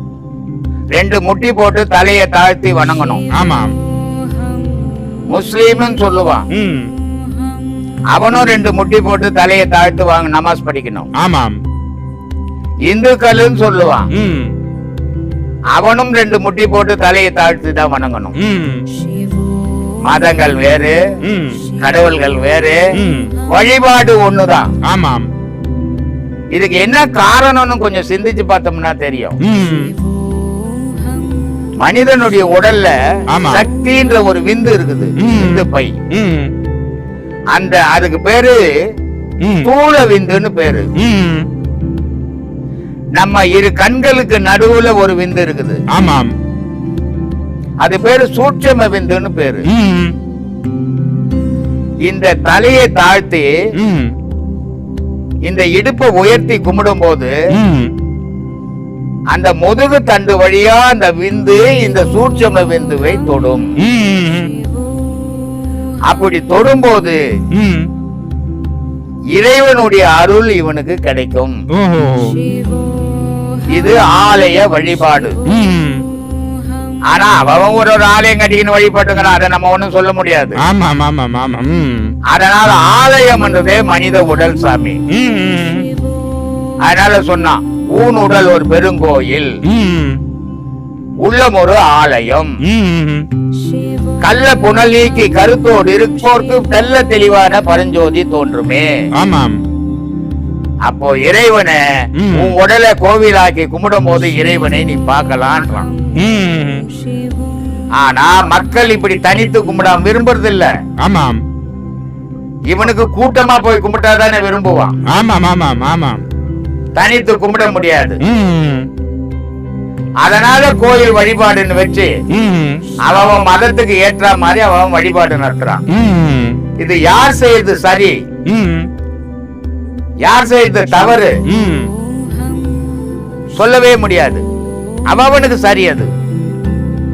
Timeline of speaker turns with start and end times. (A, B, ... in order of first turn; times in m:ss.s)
0:00.9-0:03.2 A
0:03.3-0:03.7 B
0:05.3-0:06.4 A
0:06.5-0:06.9 B
0:08.1-0:11.1 A
0:11.2-0:11.6 B
0:12.9-0:14.1 A
0:14.1-0:14.5 B
0:15.8-0:18.4 A
0:18.4-0:18.8 B
0:20.1-0:21.0 A
0:21.2-0:21.6 B
0:21.8-0:22.8 A
0:23.0-0:23.3 B
0:23.5-0:24.7 A
0:24.8-0:25.3 B
0:26.5-0:29.4 A
0:29.4-0:30.0 B
0:31.8-0:32.9 A
0:33.3-0:33.7 B
0:33.5-0:35.9 A
0:35.2-0:36.5 B
0:37.5-0:38.6 A
0:39.4-0:39.7 B
0:39.6-0:40.9 A
0:41.0-0:41.5 B
0:43.2-0:45.8 A
0:45.9-0:46.3 B
0:47.8-0:49.7 A
0:49.7-0:50.2 B
0:52.1-0:53.5 A
0:53.8-0:54.1 B
0:55.5-0:57.4 A
0:57.6-0:58.0 B
0:59.3-1:03.7 A
1:03.8-1:04.5 B
1:06.1-1:07.2 A
1:07.5-1:07.9 B
1:09.4-1:11.6 A
1:11.7-1:12.4 B
1:13.7-1:15.4 A
1:15.5-1:16.0 B
1:17.1-1:20.6 A
1:20.6-1:22.1 B
1:22.3-1:25.0 A
1:25.1-1:25.9 B
1:26.8-1:29.5 A
1:29.7-1:30.2 B
1:31.2-1:32.6 A
1:32.6-1:33.3 B
1:34.2-1:38.9 A
1:39.2-1:39.6 B
1:40.9-1:41.8 A
1:42.2-1:42.6 B
1:42.3-1:45.9 A
1:46.2-1:46.9 B
1:48.0-1:50.7 A
1:51.0-1:51.4 B
1:52.7-1:54.9 A
1:55.1-1:56.2 B
1:57.0-1:58.2 A
1:58.2-1:58.9 B
2:00.2-2:02.2 A
2:02.3-2:02.8 B
2:03.0-2:05.8 A
2:05.9-2:06.6 B
2:06.8-2:08.2 A
2:08.5-2:08.9 B
2:10.2-2:11.3 A
2:11.5-2:11.9 B
2:13.6-2:14.4 A
2:15.1-2:16.1 A